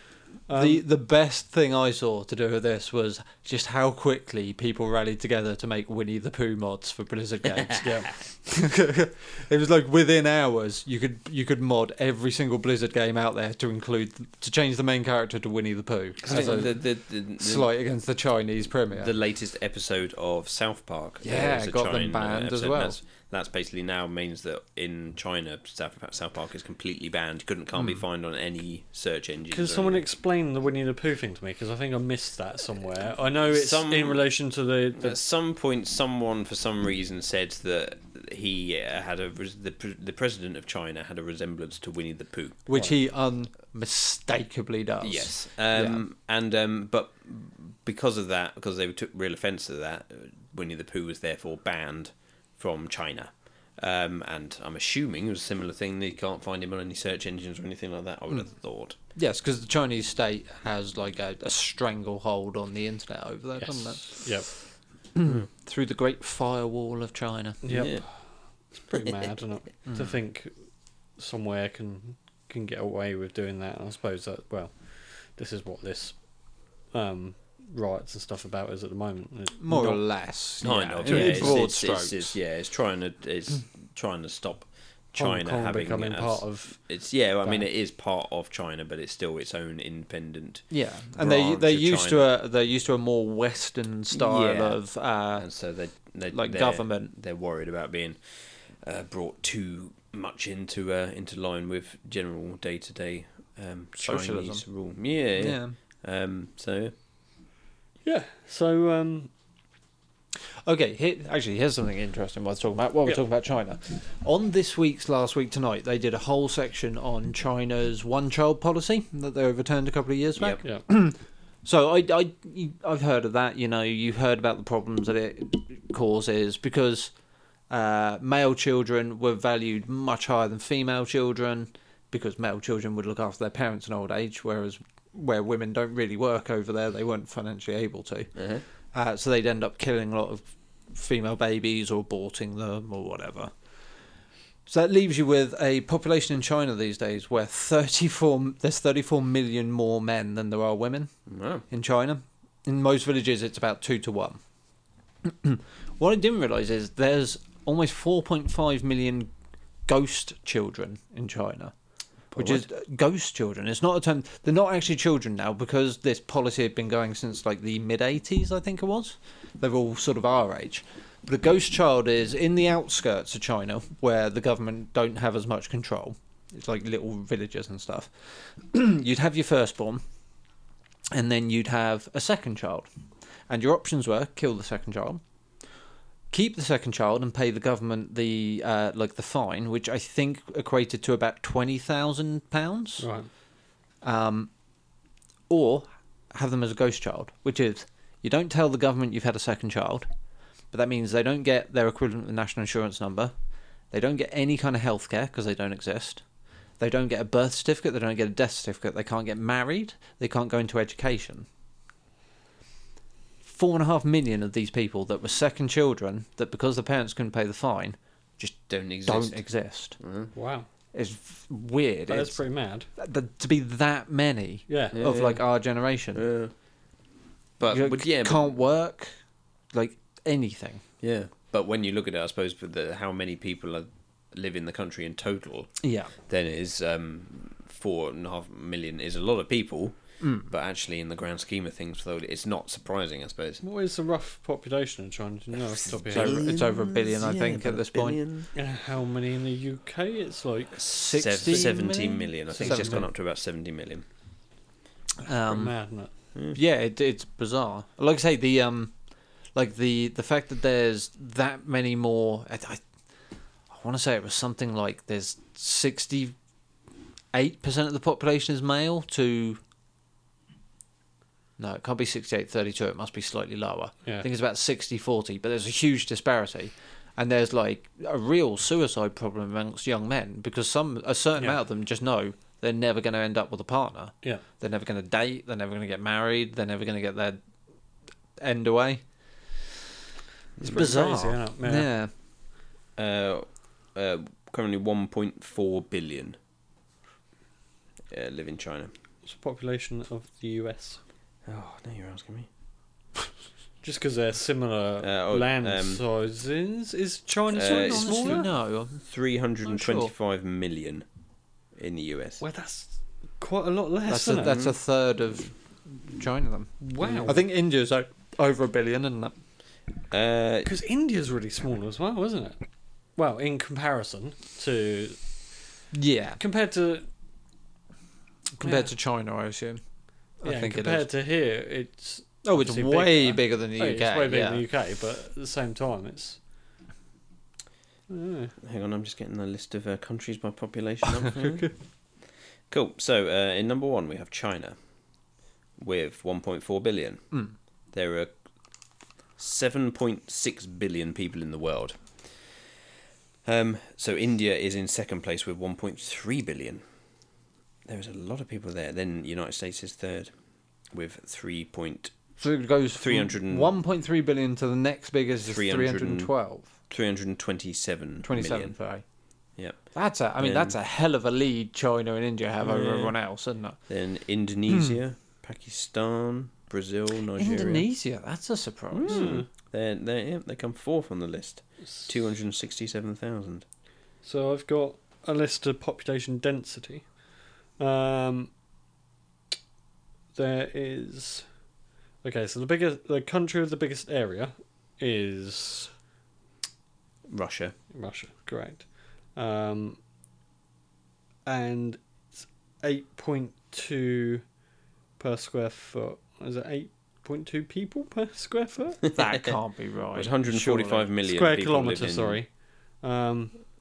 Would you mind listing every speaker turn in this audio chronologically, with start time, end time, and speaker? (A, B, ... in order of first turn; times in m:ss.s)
0:00.5-0:00.8 A
0:00.6-0:19.1 B
0:07.6-0:07.9 C
0:07.8-0:08.1 A
0:16.2-0:17.7 C
0:19.0-0:30.0 C
0:21.2-0:23.0 B
0:29.5-0:35.2 A
0:33.5-0:34.2 C
0:35.0-0:42.8 C
0:42.7-0:46.0 B
0:45.0-0:59.0 C
0:59.2-1:04.3 B
1:03.6-1:04.5 A
1:05.1-1:07.6 B
1:07.6-1:08.1 A
1:07.7-1:08.0 C
1:08.7-1:10.5 A
1:09.9-1:10.1 B
1:11.2-1:16.2 A
1:16.9-1:20.0 A
1:19.6-1:22.4 B
1:20.6-1:30.7 C
1:21.1-1:21.6 A
1:25.2-1:26.8 A
1:30.7-1:35.5 B
1:31.2-1:32.3 C
1:34.1-1:34.8 C
1:35.4-1:46.9 C
1:36.3-1:37.1 B
1:44.0-1:44.6 B
1:45.4-1:45.7 B
1:48.0-1:49.3 A
1:50.6-2:07.1 B
2:07.7-2:18.3 B
2:18.4-2:18.6 C
2:18.9-2:23.5 B
2:24.7-2:31.1 B
2:31.3-2:31.6 C
2:31.7-2:34.4 B
2:35.2-2:39.3 B
2:39.9-2:41.7 B
2:42.3-2:42.6 C
2:42.4-3:00.0 B
3:01.1-3:02.9 B
3:03.5-3:05.2 B
3:06.3-3:13.1 B
3:13.0-3:13.3 A
3:14.0-3:14.5 B
3:15.5-3:20.1 B
3:20.7-3:23.3 B
3:23.9-3:26.2 B
3:26.8-3:31.5 B
3:33.4-3:40.0 B
3:38.7-3:39.4 C
3:40.0-3:40.3 C
3:40.3-3:40.7 A
3:40.9-3:42.4 B
3:42.1-3:42.9 A
3:43.0-3:46.2 B
3:44.7-3:45.0 A
3:44.9-3:45.4 C
3:46.1-3:46.5 C
3:47.6-3:48.5 C
3:47.7-3:49.1 B
3:49.7-3:50.8 B
3:51.0-3:55.7 C
3:55.8-3:56.1 B
3:56.3-4:03.6 C
4:00.2-4:00.5 B
4:03.6-4:06.4 A
4:05.9-4:08.5 C
4:06.1-4:08.2 B
4:08.6-4:10.8 A
4:10.8-4:14.0 C
4:10.9-4:13.1 B
4:11.4-4:11.7 A
4:12.5-4:13.0 A
4:15.2-4:15.7 B
4:15.5-4:16.1 A
4:16.5-4:19.0 B
4:19.6-4:22.8 B
4:23.7-4:26.4 B
4:27.3-4:29.6 B
4:31.6-4:47.4 B
4:48.4-4:49.0 B
4:50.6-4:52.1 B
4:50.6-4:51.9 A
4:53.0-4:56.4 C
4:58.1-4:58.9 C
4:59.2-5:01.0 A
5:01.5-5:02.5 C
5:03.8-5:08.5 A
5:05.0-5:06.0 C
5:07.5-5:08.5 C
5:07.5-5:09.0 B
5:09.0-5:11.1 C
5:09.6-5:10.1 B
5:11.8-5:12.4 C
5:12.4-5:14.6 A
5:14.1-5:19.4 B
5:14.4-5:14.8 C
5:16.8-5:17.4 A
5:20.1-5:20.7 C
5:20.6-5:22.6 A
5:23.2-5:25.2 A
5:25.9-5:26.4 B
5:26.4-5:27.1 A
5:28.6-5:29.8 B
5:28.6-5:28.9 A
5:30.4-5:31.1 B
5:30.4-5:36.4 A
5:32.4-5:34.6 B
5:38.1-5:38.5 A
5:38.6-5:41.7 C
5:42.7-5:44.8 C
5:45.8-5:47.4 C
5:47.9-5:48.3 C
5:49.4-5:52.1 C
5:53.4-5:56.8 C
5:57.9-6:00.3 C
6:00.9-6:02.1 C
6:02.4-6:06.7 B
6:03.0-6:03.7 C
6:05.4-6:06.3 C
6:06.9-6:08.8 C
6:08.2-6:09.0 B
6:09.9-6:13.8 B
6:10.4-6:10.8 C
6:12.7-6:13.0 A
6:13.9-6:17.9 C
6:14.7-6:15.0 B
6:17.4-6:19.3 B
6:18.9-6:23.6 C
6:19.1-6:19.5 A
6:24.2-6:27.0 A
6:27.8-6:28.5 A
6:30.3-6:31.5 A
6:32.2-6:35.9 A
6:37.3-6:37.8 C
6:37.9-6:40.0 A
6:41.5-6:44.4 A
6:45.2-6:49.0 A
6:49.1-6:51.1 B
6:49.2-6:49.5 C
6:50.1-6:52.4 C
6:51.2-6:52.5 A
6:53.0-6:53.5 A